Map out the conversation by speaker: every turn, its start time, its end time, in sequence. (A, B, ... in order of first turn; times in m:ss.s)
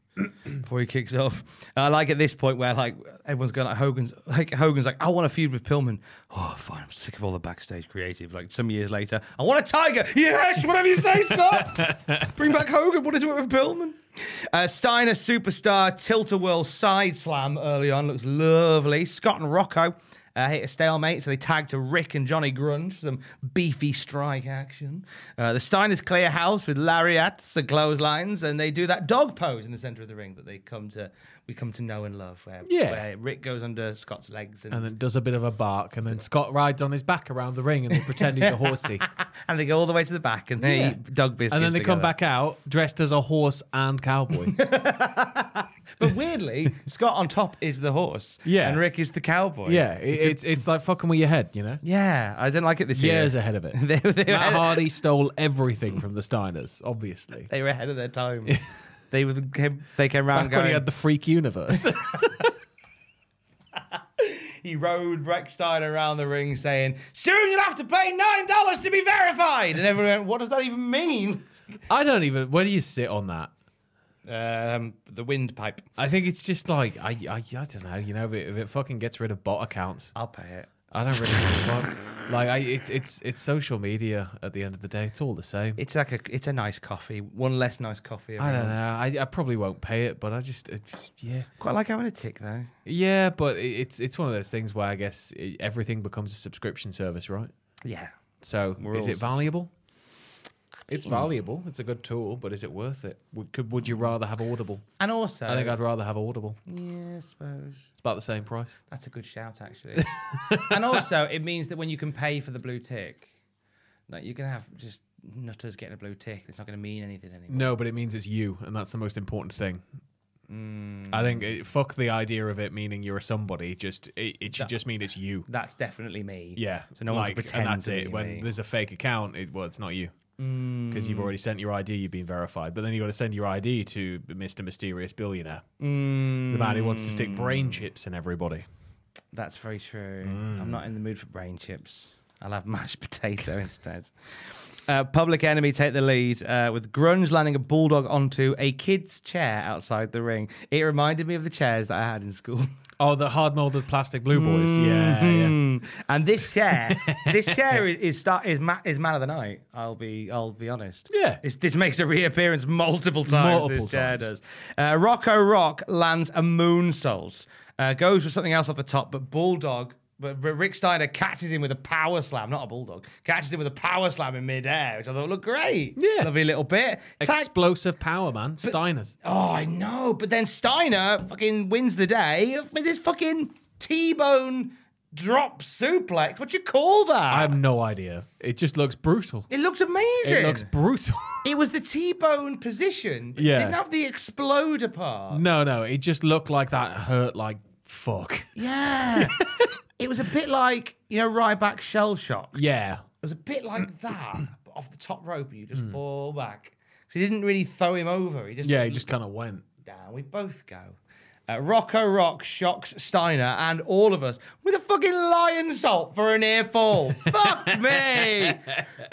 0:00.6-0:34.9 A
0:11.7-0:12.3 B
0:32.6-0:33.0 B
0:34.7-0:39.1 B
0:38.2-0:42.1 A
0:40.6-0:41.0 B
0:41.5-0:44.6 B
0:44.5-0:50.6 A
0:48.4-0:48.8 B
0:49.6-0:51.8 B
0:51.8-0:54.8 A
0:52.9-0:57.5 B
0:57.5-0:58.6 A
0:59.1-1:00.8 A
1:00.3-1:02.5 B
1:04.2-1:11.5 A
1:11.9-1:13.5 B
1:14.2-1:15.9 A
1:16.0-1:20.1 B
1:20.1-1:20.9 A
1:20.9-1:25.8 B
1:25.8-1:28.8 A
1:28.4-1:31.5 B
1:31.6-1:32.7 A
1:32.8-1:37.5 B
1:37.8-1:38.1 A
1:38.4-1:39.7 B
1:38.8-1:39.4 A
1:40.9-1:44.8 B
1:45.0-1:45.8 A
1:45.4-1:46.6 B
1:46.6-1:47.9 A
1:48.0-1:48.8 B
1:48.9-1:53.3 A
1:50.5-1:50.8 B
1:54.1-1:57.7 A
1:57.5-1:59.8 B
2:00.5-2:01.5 A
2:01.1-2:05.5 B
2:05.5-2:08.5 A
2:06.5-2:10.1 B
2:10.4-2:11.3 A
2:10.9-2:15.6 B
2:15.8-2:17.8 A
2:16.4-2:18.6 B
2:19.3-2:24.1 A
2:20.2-2:20.8 B
2:24.8-2:32.7 A
2:33.0-2:35.6 B
2:34.3-2:57.5 A
2:36.7-2:37.7 B
2:41.1-2:41.4 B
2:43.3-2:44.3 B
2:56.0-2:56.3 B
2:57.2-2:59.1 B
2:58.6-3:07.6 A
3:07.3-3:09.5 B
3:09.5-3:10.7 A
3:10.2-3:11.4 B
3:11.4-3:15.4 A
3:13.4-3:13.8 B
3:15.3-3:18.5 B
3:18.5-3:22.7 A
3:19.2-3:19.7 B
3:22.5-3:23.0 B
3:23.2-3:29.1 A
3:28.6-3:29.6 B
3:29.8-3:31.0 A
3:31.5-3:38.8 A
3:37.3-3:38.5 B